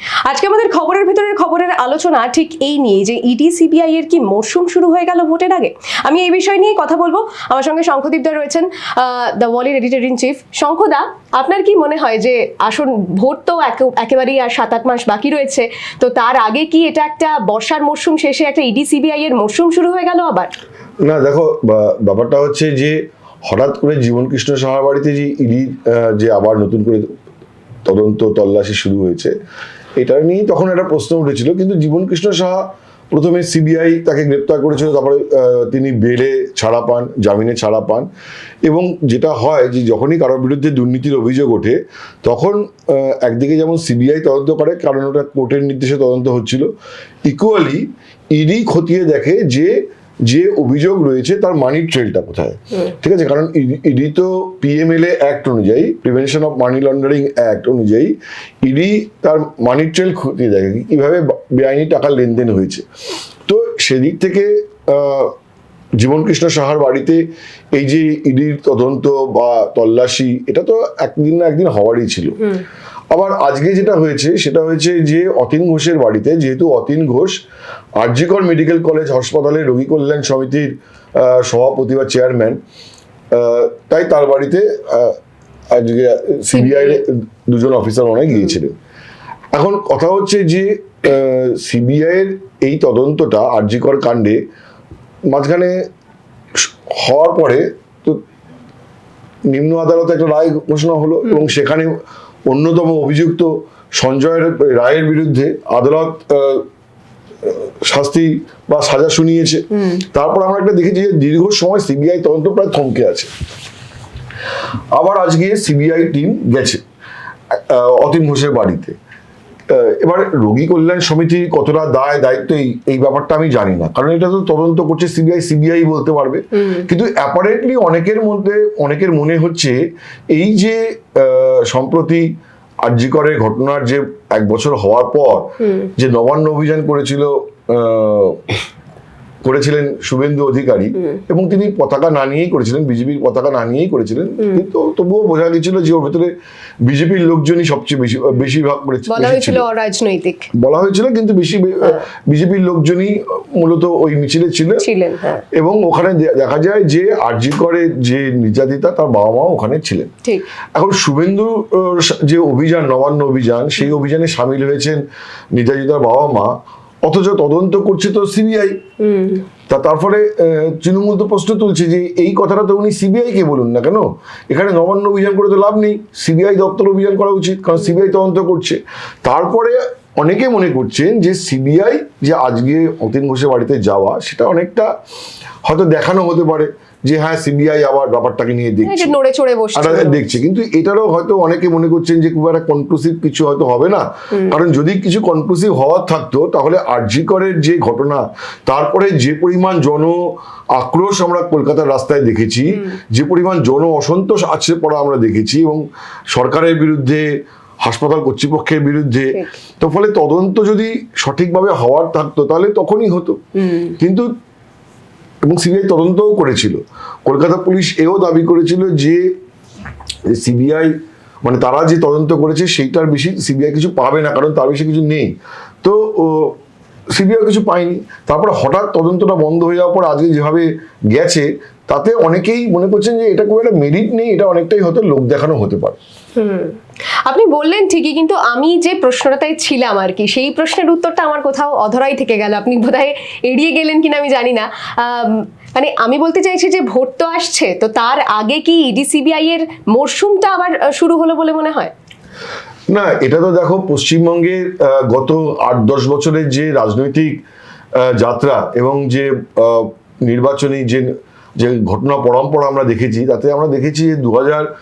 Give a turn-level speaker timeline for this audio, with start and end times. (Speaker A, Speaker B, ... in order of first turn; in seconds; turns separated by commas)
Speaker A: 0.2-20.5, Speaker B: 21.0-27.1, Speaker B: 27.8-29.3, Speaker B: 30.0-38.1, Speaker B: 38.7-46.7, Speaker B: 47.2-62.9, Speaker B: 63.5-65.3, Speaker B: 66.0-67.2, Speaker B: 67.7-72.5, Speaker B: 73.1-77.4, Speaker B: 78.0-82.6, Speaker B: 83.3-85.2, Speaker B: 85.7-88.8, Speaker A: 86.5-87.0, Speaker B: 89.5-94.4, Speaker B: 95.3-95.7, Speaker B: 96.6-98.2, Speaker B: 99.5-106.7, Speaker B: 107.4-113.3, Speaker A: 109.8-110.0, Speaker B: 114.9-116.8, Speaker B: 117.5-118.9, Speaker B: 119.7-129.8, Speaker A: 126.6-126.9, Speaker B: 130.3-132.3, Speaker B: 132.8-138.4, Speaker A: 135.6-135.9, Speaker B: 139.4-146.3, Speaker B: 146.8-149.7, Speaker A: 149.1-150.5, Speaker B: 150.6-154.8, Speaker A: 154.8-155.4, Speaker B: 155.5-160.1, Speaker B: 160.8-165.0, Speaker B: 165.5-166.5, Speaker B: 167.0-168.8, Speaker A: 169.0-169.4, Speaker B: 169.7-184.9, Speaker B: 185.7-189.2, Speaker A: 188.8-190.2, Speaker B: 189.8-200.2, Speaker B: 200.7-213.4, Speaker A: 213.6-214.0, Speaker B: 214.0-214.3, Speaker B: 215.4-219.3, Speaker B: 220.3-220.9, Speaker B: 221.4-226.6, Speaker B: 227.1-236.0, Speaker A: 236.4-251.9, Speaker B: 252.9-257.4, Speaker B: 258.0-264.7